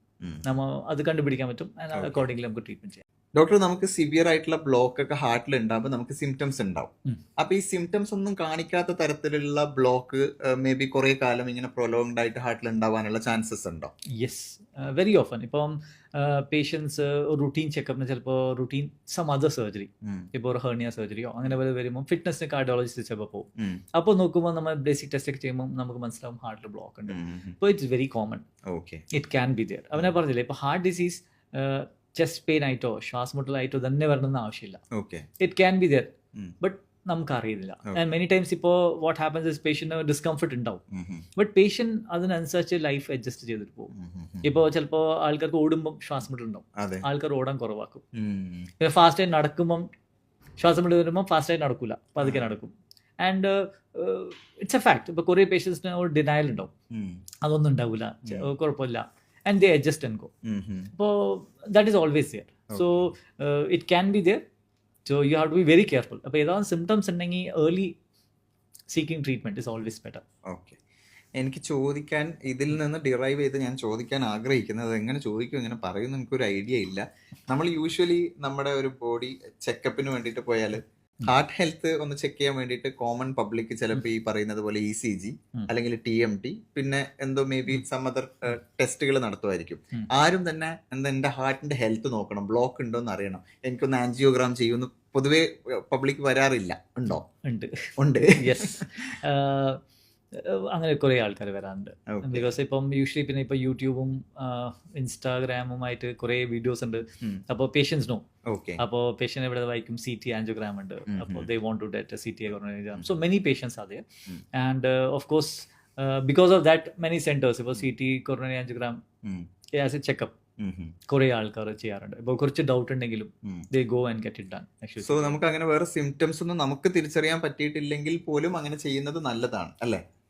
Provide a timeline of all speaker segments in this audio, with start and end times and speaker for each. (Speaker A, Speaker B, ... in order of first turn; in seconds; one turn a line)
Speaker A: 0.4-3.0
Speaker B: 1.9-2.2
Speaker B: 3.4-13.9
Speaker A: 14.2-28.4
Speaker B: 20.0-20.3
Speaker B: 27.1-27.6
Speaker B: 28.7-29.0
Speaker A: 29.1-34.8
Speaker B: 34.9-35.3
Speaker A: 35.4-40.8
Speaker B: 40.9-41.2
Speaker A: 41.4-43.9
Speaker B: 43.9-44.6
Speaker A: 44.4-48.0
Speaker B: 46.8-47.0
Speaker B: 48.1-48.7
Speaker A: 48.8-49.9
Speaker A: 50.6-56.7
Speaker B: 52.2-52.5
Speaker B: 56.9-57.2
Speaker A: 57.4-60.3
Speaker B: 60.4-60.9
Speaker A: 60.9-64.4
Speaker B: 62.7-63.1
Speaker A: 65.1-68.0
Speaker A: 68.9-70.2
Speaker B: 70.5-70.8
Speaker B: 71.4-97.2
Speaker A: 97.5-99.8
Speaker B: 98.0-99.1
Speaker A: 100.3-108.2
Speaker B: 102.1-102.6
Speaker B: 108.5-108.8
Speaker A: 108.8-119.0
Speaker B: 111.1-111.5
Speaker A: 119.8-120.3
Speaker B: 120.6-121.0
Speaker A: 121.1-125.4
Speaker B: 125.0-130.0